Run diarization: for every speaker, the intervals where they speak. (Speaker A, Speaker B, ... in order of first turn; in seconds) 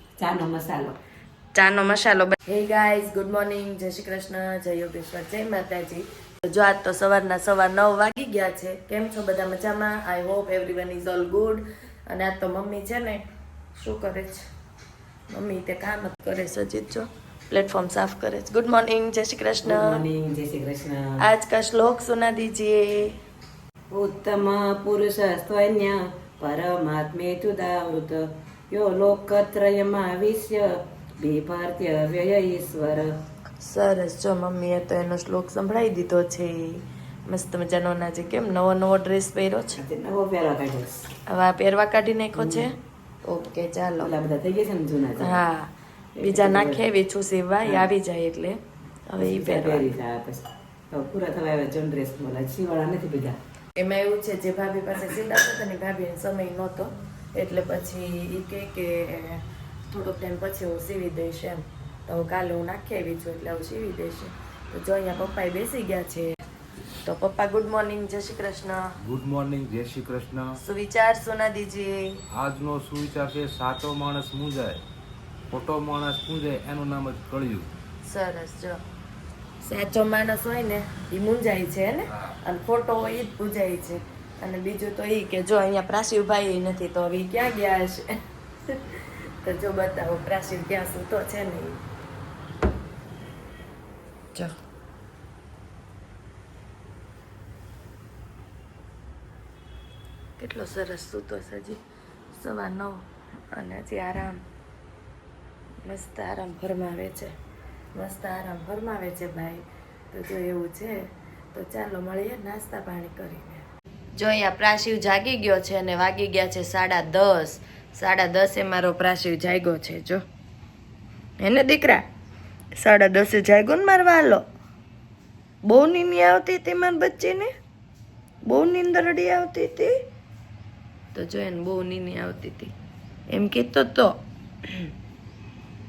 Speaker A: 0.2-1.0, 19.6-21.2, 23.9-33.1, 39.8-41.1, 42.4-42.7, 44.0-45.4, 46.2-46.8, 47.6-47.9, 49.2-53.4
Speaker B: 1.5-13.2, 13.8-14.4, 15.3-20.0, 21.2-23.2, 33.6-39.8, 41.3-42.7, 43.2-44.1, 45.2-49.9, 53.8-66.3, 67.0-69.0, 70.6-72.2, 78.0-78.8, 79.6-88.1, 88.7-91.8, 100.4-101.8, 102.3-104.4, 105.8-107.3, 107.9-120.2, 121.4-122.0, 122.8-124.4, 125.7-127.5, 128.4-129.9, 131.1-132.7, 133.3-134.2
Speaker C: 69.0-70.6, 72.3-74.8, 75.5-77.7